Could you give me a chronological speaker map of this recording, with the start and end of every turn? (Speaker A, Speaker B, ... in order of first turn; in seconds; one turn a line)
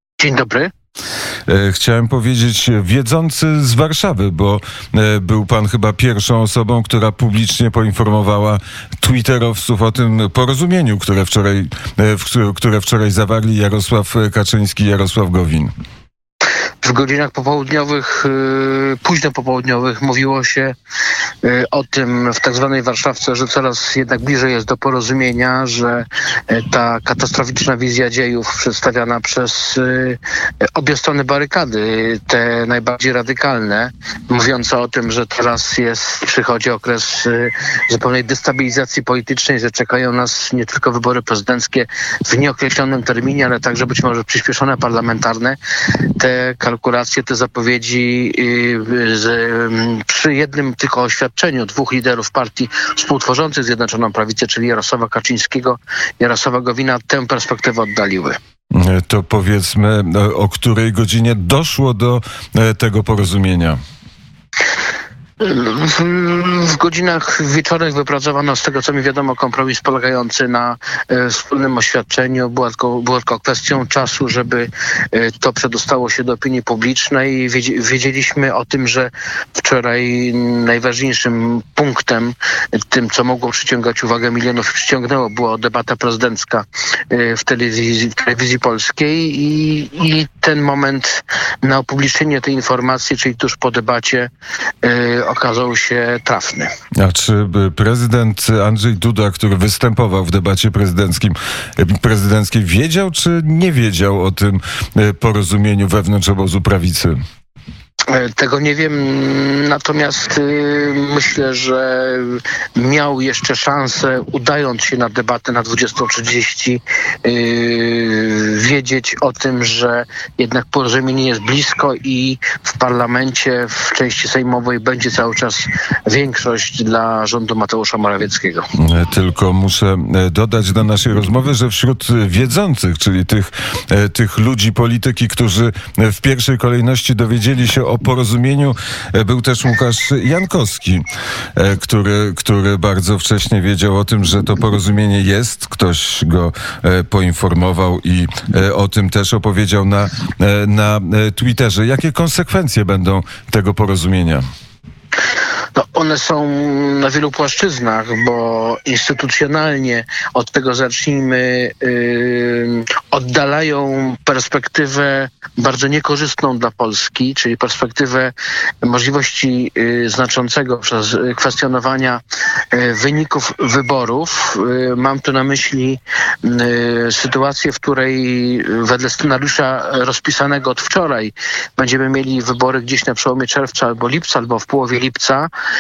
Speaker A: 0.2-0.7
Speaker B: 1.5-15.7
Speaker A: 16.8-20.7
Speaker A: 21.4-58.4
Speaker B: 58.7-63.8
Speaker A: 65.4-94.3
Speaker A: 94.8-96.7
Speaker B: 97.0-107.2
Speaker A: 108.1-128.7
Speaker B: 128.8-141.1
Speaker B: 141.6-154.4
Speaker A: 155.8-185.5